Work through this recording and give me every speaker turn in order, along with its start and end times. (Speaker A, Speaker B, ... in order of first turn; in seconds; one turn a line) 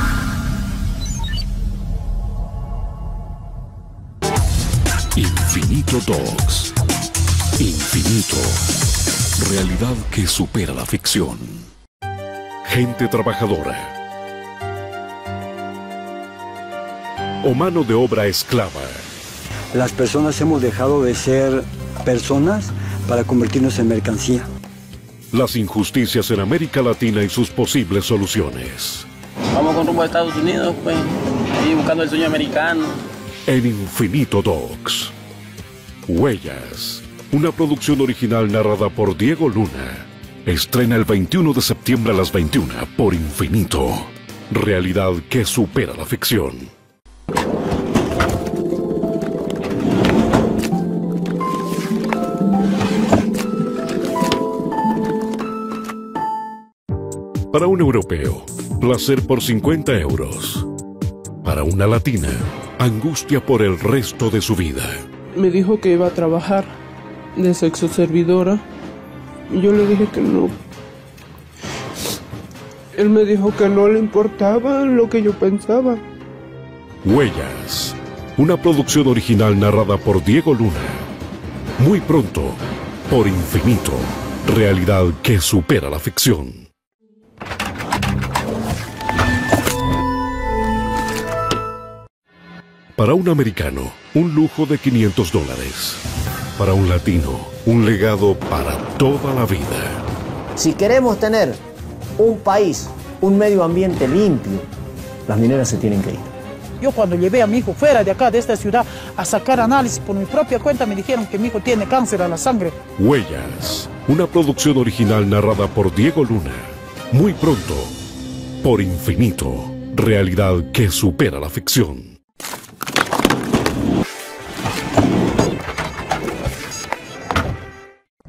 Speaker A: 5.1-6.7
Speaker A: 7.6-8.6
Speaker A: 9.4-11.7
Speaker A: 12.7-13.9
Speaker A: 17.4-19.0
Speaker B: 19.7-24.5
Speaker A: 25.3-29.1
Speaker C: 29.5-33.0
Speaker A: 33.5-35.1
Speaker A: 36.1-46.7
Speaker A: 57.5-60.7
Speaker A: 61.4-65.0
Speaker D: 65.3-66.7
Speaker D: 67.4-68.6
Speaker D: 69.5-70.6
Speaker D: 73.0-76.0
Speaker A: 77.0-81.0
Speaker A: 81.8-86.7
Speaker A: 93.0-96.0
Speaker A: 96.6-100.0
Speaker E: 100.6-101.6
Speaker E: 102.2-104.7
Speaker E: 105.3-106.3
Speaker F: 106.8-112.8
Speaker A: 113.0-117.9
Speaker A: 118.6-122.2